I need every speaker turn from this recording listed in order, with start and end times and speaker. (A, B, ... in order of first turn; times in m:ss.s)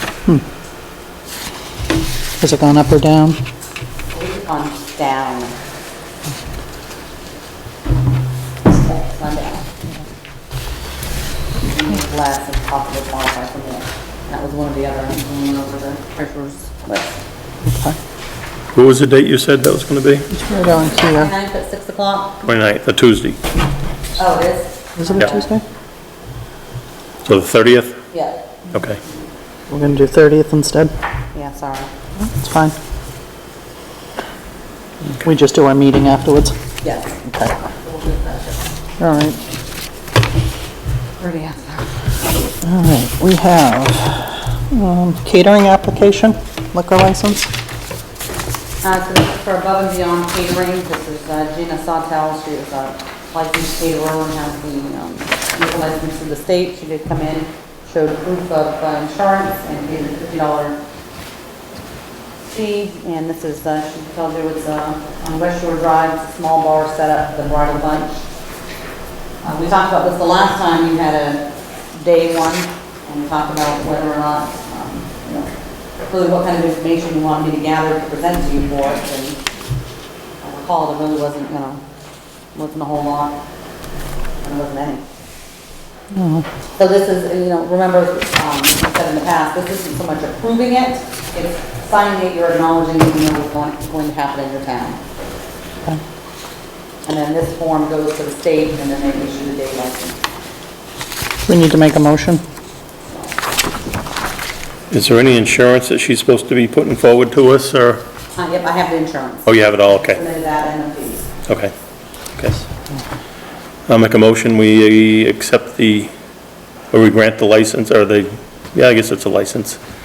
0:02.4-0:03.4 A
0:04.1-0:05.5 B
0:08.6-0:09.6 B
0:11.6-0:17.2 B
0:17.7-0:18.0 A
0:18.7-0:20.3 C
0:20.3-0:21.3 A
0:20.6-0:22.4 B
0:22.4-0:23.4 C
0:24.2-0:25.4 B
0:25.0-0:25.6 A
0:27.2-0:28.0 C
0:28.1-0:28.4 B
0:28.7-0:29.0 C
0:29.7-0:30.9 A
0:31.3-0:31.9 B
0:32.2-0:32.8 A
0:35.2-0:36.6 A
0:36.8-0:37.2 B
0:37.2-0:37.5 A
0:37.8-0:38.7 B
0:39.0-0:39.4 A
0:41.2-0:42.0 B
0:42.6-0:47.5 A
0:48.8-1:00.8 B
1:02.4-1:08.2 B
1:09.4-1:15.5 B
1:16.1-1:19.4 B
1:20.4-1:21.8 B
1:22.5-1:23.4 B
1:24.4-1:25.0 B
1:26.1-1:26.4 A
1:26.8-1:35.0 B
1:37.0-1:40.2 B
1:41.4-1:42.4 A
1:44.9-1:48.0 C
1:48.4-1:51.3 B
1:49.4-1:50.2 C
1:51.5-1:51.7 C
1:52.4-1:52.6 C
1:53.9-1:56.1 C
1:56.9-1:59.8 C